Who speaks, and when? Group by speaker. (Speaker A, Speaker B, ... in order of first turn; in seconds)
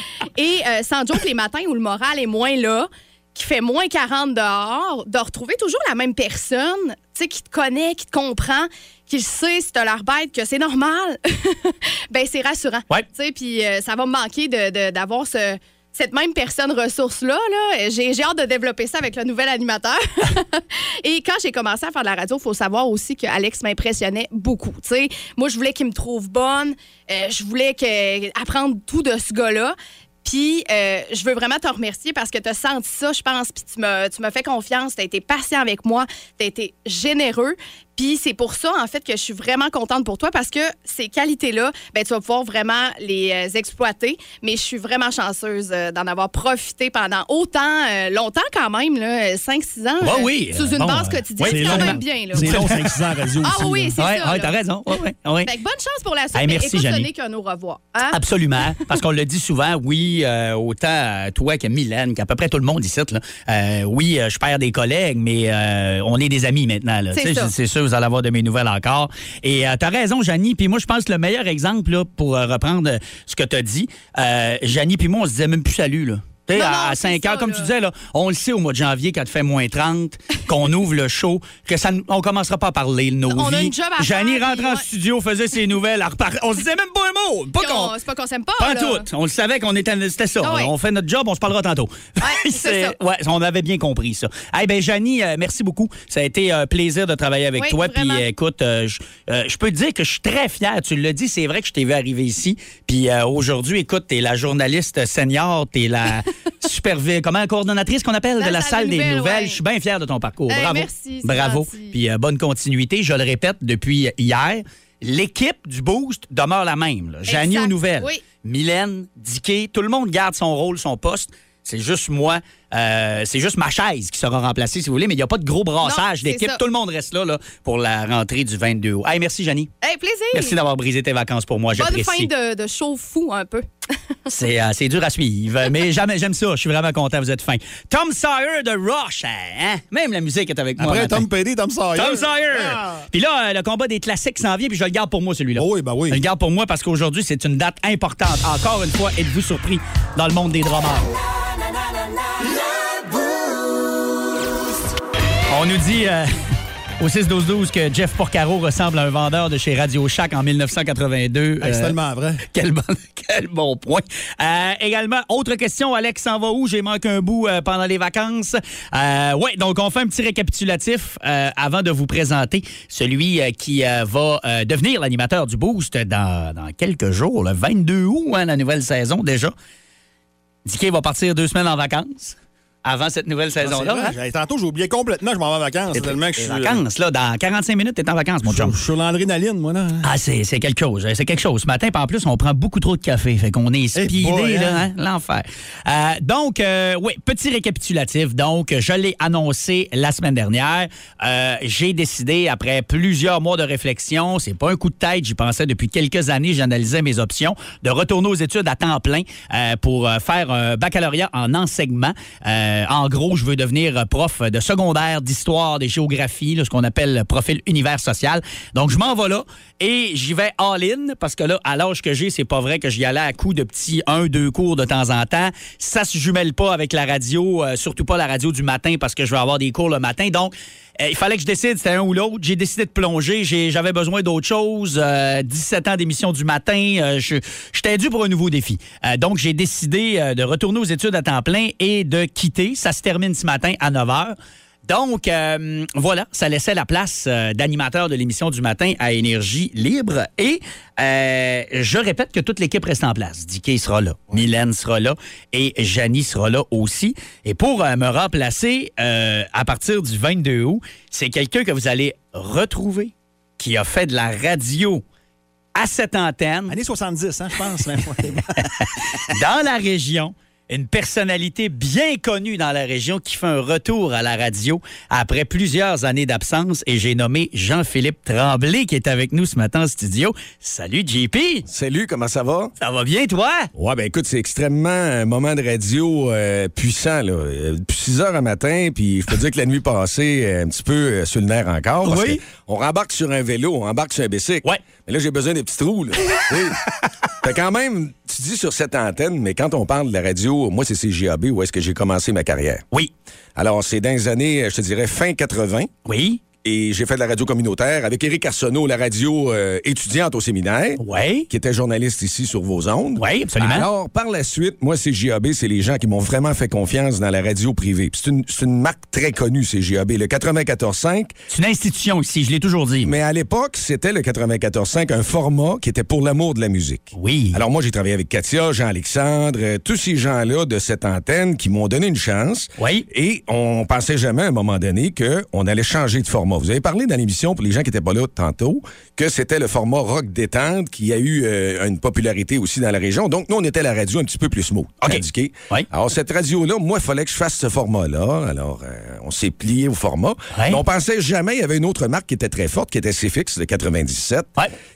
Speaker A: 0.4-52.6, 53.4-54.5, 55.4-58.2, 67.1-67.5, 76.5-77.7, 83.3-84.9, 87.6-89.0, 90.4-90.7, 92.2-92.9, 97.6-98.3, 108.4-109.6, 110.5-111.9, 117.3-118.2, 125.8-126.6, 129.8-130.6, 131.7-133.6
Speaker B: 50.0-52.9, 54.0-55.5, 56.3-57.1, 58.1-87.9, 88.6-129.7, 130.3-132.3, 134.3-141.3, 141.9-151.2, 155.5-156.3, 157.0-161.9, 162.5-179.5, 180.6-184.1, 185.9-188.8, 190.0-265.0, 265.8-266.8, 269.3-281.6, 282.8-283.7, 292.0-292.4, 306.1-306.4, 311.0-311.5, 313.2-313.9, 321.5-323.1, 327.1-327.6, 332.8-333.1, 345.0-345.9, 350.5-350.8
Speaker C: 51.4-54.0, 140.8-143.0, 145.6-146.2, 161.6-162.4, 183.6-186.8, 188.4-190.1, 193.9-194.9, 266.7-268.7
Speaker D: 281.6-282.7, 283.7-296.8, 297.4-302.8, 303.6-305.9, 306.6-321.3, 323.0-354.5